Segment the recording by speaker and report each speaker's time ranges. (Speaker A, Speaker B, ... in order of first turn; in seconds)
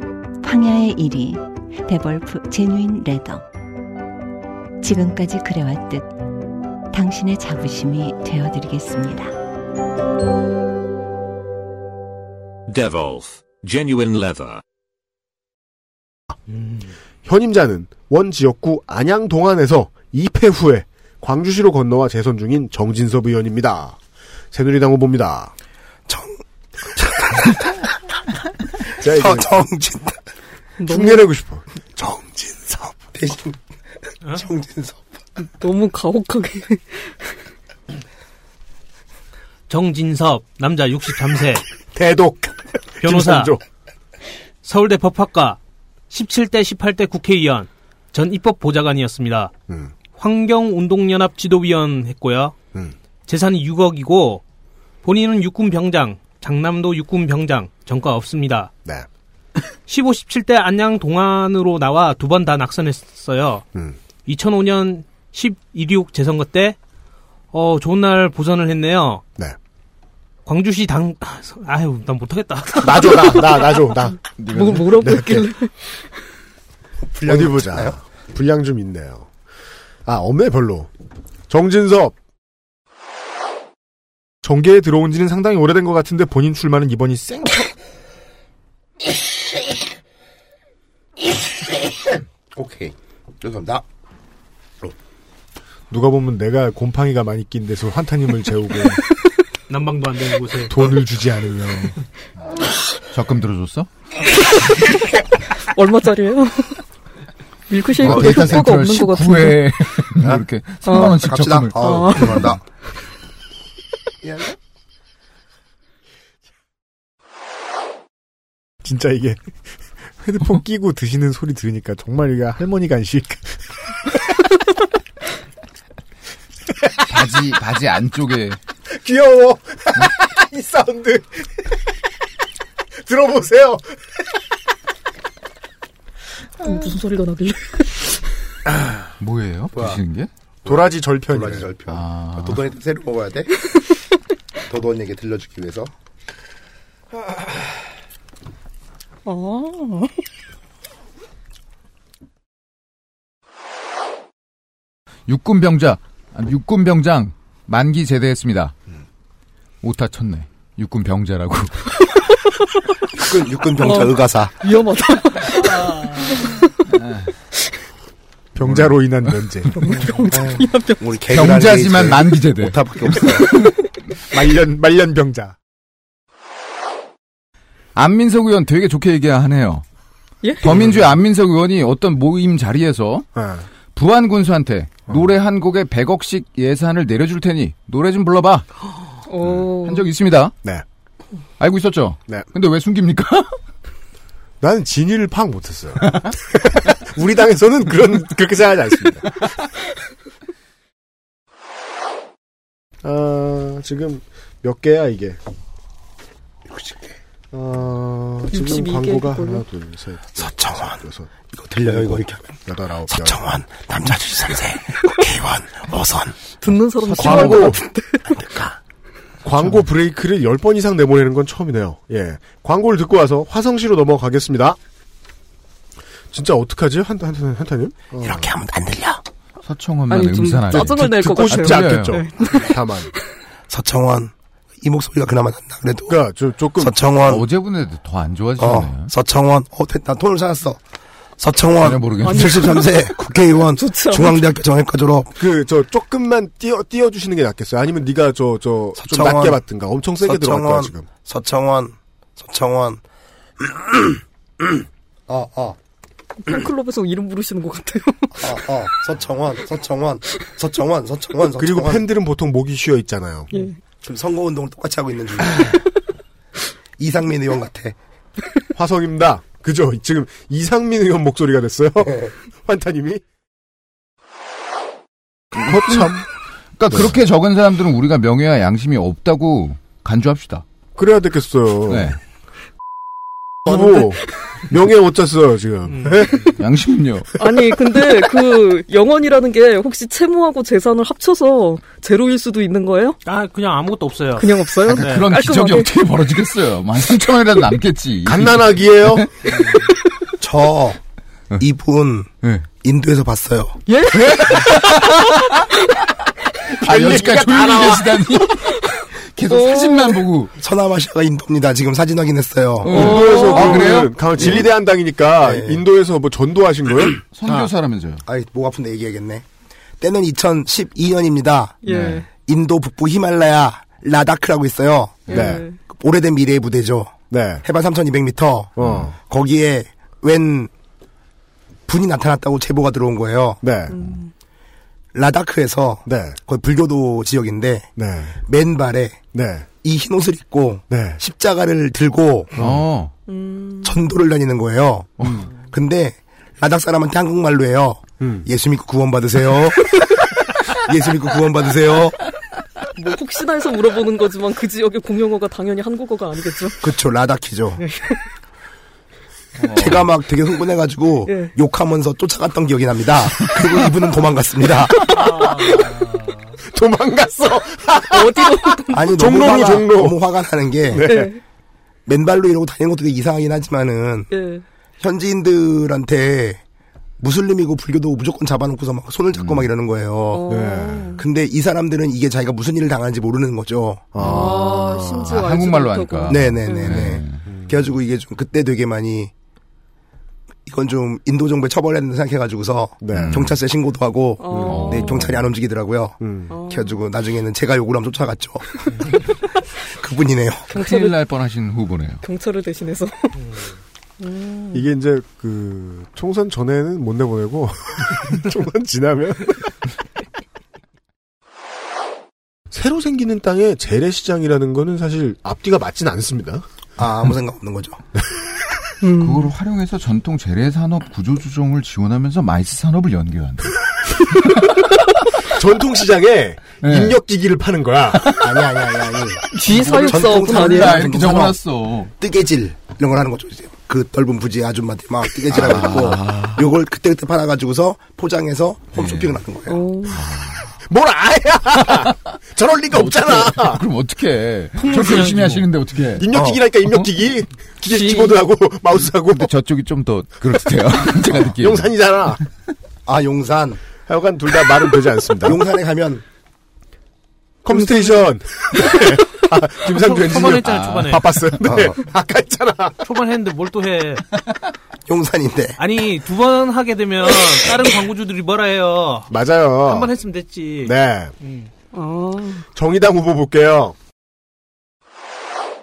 Speaker A: 0.4-3.4, 4.8-6.1, 6.9-9.3
Speaker B: 12.7-14.6
Speaker C: 17.2-24.0, 24.5-25.5, 29.0-29.6, 30.8-31.6, 41.9-43.6, 72.8-74.2, 74.9-75.5, 77.2-79.3, 80.0-80.9, 81.5-82.1, 84.4-87.7, 95.9-99.0, 100.7-102.0, 118.8-119.4, 120.2-123.6, 128.9-131.6, 133.0-134.0, 140.6-141.7, 168.5-169.7, 174.3-175.6, 183.3-183.6, 194.6-199.3, 203.0-205.4, 207.5-211.3, 211.8-213.4, 217.1-217.8, 219.4-224.8, 226.3-228.5, 230.7-233.1, 236.1-237.0, 245.4-251.1, 261.6-263.5, 268.7-273.2, 275.6-276.2, 276.9-277.1, 280.9-282.2, 283.6-286.5, 298.2-299.3, 306.8-308.1, 312.9-317.7, 325.3-325.6, 327.3-327.6, 328.8-329.1, 333.6-333.9, 336.0-336.4, 337.9-338.4, 339.3-339.6, 340.9-341.2, 342.6-342.8, 345.2-345.5, 348.2-348.5, 365.2-365.7, 366.7-370.2, 370.9-371.3, 380.5-381.1, 384.1-385.3, 387.5-387.7, 393.0-393.5, 396.2-396.5, 404.7-409.7, 412.7-416.6, 425.4-428.3, 440.9-443.8, 446.1-449.5, 451.3-452.4, 454.1-455.6, 457.6-463.0, 469.3-470.1, 470.8-471.3, 472.7-473.9
Speaker D: 26.1-26.4, 26.9-27.7, 28.9-30.2, 31.9-33.6, 34.3-35.0, 77.0-78.0, 92.5-93.8, 108.0-108.5, 111.0-112.6, 114.2-114.5, 139.7-140.0, 140.7-143.5, 144.7-145.9, 163.2-164.6, 170.4-173.6, 206.7-207.2, 210.3-212.6, 213.1-216.3, 218.3-218.7, 228.2-229.2, 233.7-236.2, 236.8-237.4, 238.6-240.8, 241.4-245.3, 249.0-249.6, 250.2-253.0, 255.3-255.8, 258.3-262.1, 264.0-265.7, 267.0-267.9, 272.1-272.3, 300.4-301.0, 301.6-302.3, 302.8-303.8, 310.6-313.5, 314.4-314.7, 315.4-315.8, 318.2-319.4, 320.0-321.8, 322.4-327.1, 327.6-330.7, 331.9-333.6, 335.1-337.9, 338.4-339.2, 339.8-342.5, 343.8-350.0, 350.7-352.2, 356.8-357.8, 359.7-365.1, 368.9-371.1, 372.1-374.3, 375.0-376.6, 377.2-384.0, 386.3-389.3, 390.6-398.8, 399.9-400.7, 417.0-418.0, 428.3-431.6, 432.2-439.8, 446.3-446.6, 453.1-453.8, 455.4-456.2, 461.6-461.9, 465.1-465.8
Speaker E: 30.8-31.3, 35.4-37.3, 74.5-75.7, 105.7-106.8, 107.7-109.7, 110.8-111.2, 111.7-112.5, 136.6-138.0, 149.2-150.1, 163.8-166.7, 169.8-171.0, 180.4-180.8, 189.3-190.1, 208.5-209.6, 216.6-218.3, 230.1-232.7, 242.2-243.0, 243.8-244.4, 256.4-258.6, 263.5-263.8, 287.4-293.2, 294.4-295.9, 303.9-304.8, 309.5-310.2, 312.9-314.1, 321.8-322.2, 325.3-325.8, 333.9-334.2, 343.3-343.9, 352.9-356.8, 361.2-361.5, 368.1-369.2, 371.0-371.4, 374.3-374.6, 380.3-381.2, 384.2-387.1, 394.4-395.2, 396.5-396.9, 400.7-401.2, 402.2-403.4, 404.2-404.8, 419.0-419.5, 429.5-431.1, 439.7-440.2, 447.9-448.4, 457.7-458.3, 471.9-472.6
Speaker F: 39.7-41.6, 43.0-43.5, 44.6-45.6, 46.1-49.5, 50.1-52.5, 53.3-54.4, 55.0-58.7, 59.9-63.6, 64.2-66.8, 67.5-69.2, 70.5-73.4, 99.7-100.8, 285.9-286.4, 293.2-295.3, 444.8-445.7, 459.9-461.3, 463.0-464.2, 465.8-469.3, 469.8-471.7
Speaker G: 74.4-75.1, 103.1-103.9, 108.0-112.5, 127.0-128.6, 139.2-140.3, 141.9-142.6, 155.3-158.7, 159.8-161.9, 166.9-167.3, 171.3-173.6, 177.9-179.8, 180.6-183.3, 183.9-188.7, 189.4-190.5, 191.6-193.5, 229.6-232.2, 237.2-239.1, 241.8-242.8, 275.6-276.2, 276.8-280.6, 281.9-282.2, 286.6-287.3, 294.9-299.3, 304.2-305.3, 306.7-310.5, 312.8-314.1, 317.3-318.2, 321.9-322.2, 342.6-343.1, 359.6-360.1, 379.3-379.7, 384.2-387.4, 393.1-393.5, 394.6-395.4, 400.7-402.2, 419.2-423.9, 426.8-427.2, 429.6-432.1, 435.5-436.6, 438.9-439.4, 440.1-440.7, 442.9-446.3, 449.3-452.2, 460.6-461.2